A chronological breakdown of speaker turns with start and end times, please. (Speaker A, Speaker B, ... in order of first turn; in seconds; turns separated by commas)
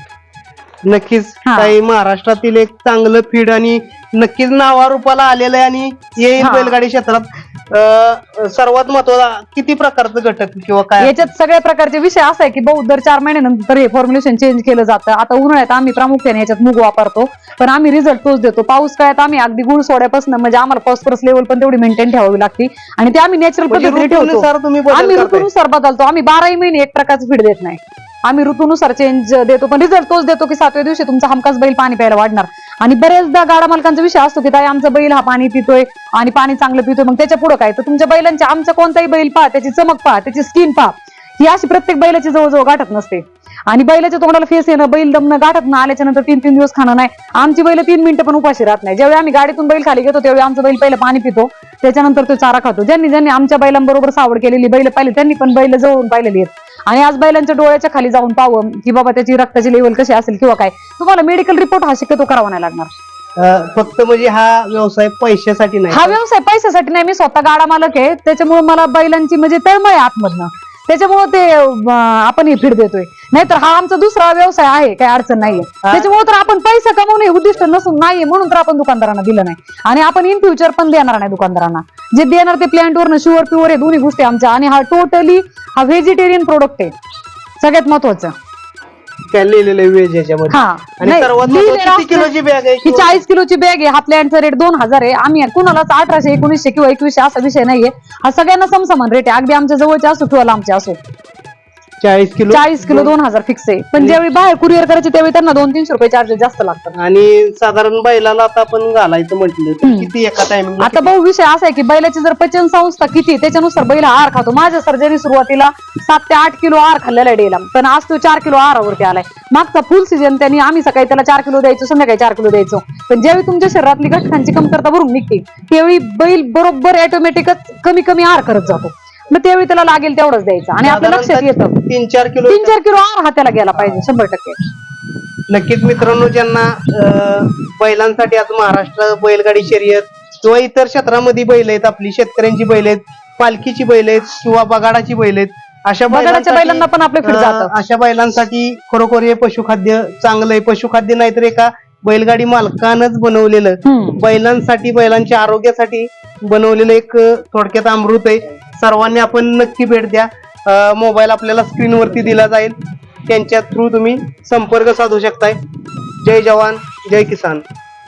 Speaker A: 0.8-11.2, Speaker B: 1.5-1.7, Speaker B: 6.4-6.7, Speaker B: 11.0-62.9, Speaker A: 23.7-25.5, Speaker A: 63.4-66.2, Speaker B: 65.9-86.9, Speaker B: 87.6-88.3, Speaker A: 89.3-93.2, Speaker B: 90.5-92.3, Speaker B: 92.8-101.0, Speaker A: 102.0-103.1, Speaker B: 102.5-106.9, Speaker A: 107.0-111.1, Speaker B: 109.8-110.1, Speaker B: 110.8-131.7, Speaker A: 130.8-132.8, Speaker B: 132.5-134.6, Speaker A: 135.5-162.7, Speaker B: 146.1-147.7, Speaker B: 153.8-154.2, Speaker A: 163.3-165.6, Speaker A: 166.2-167.6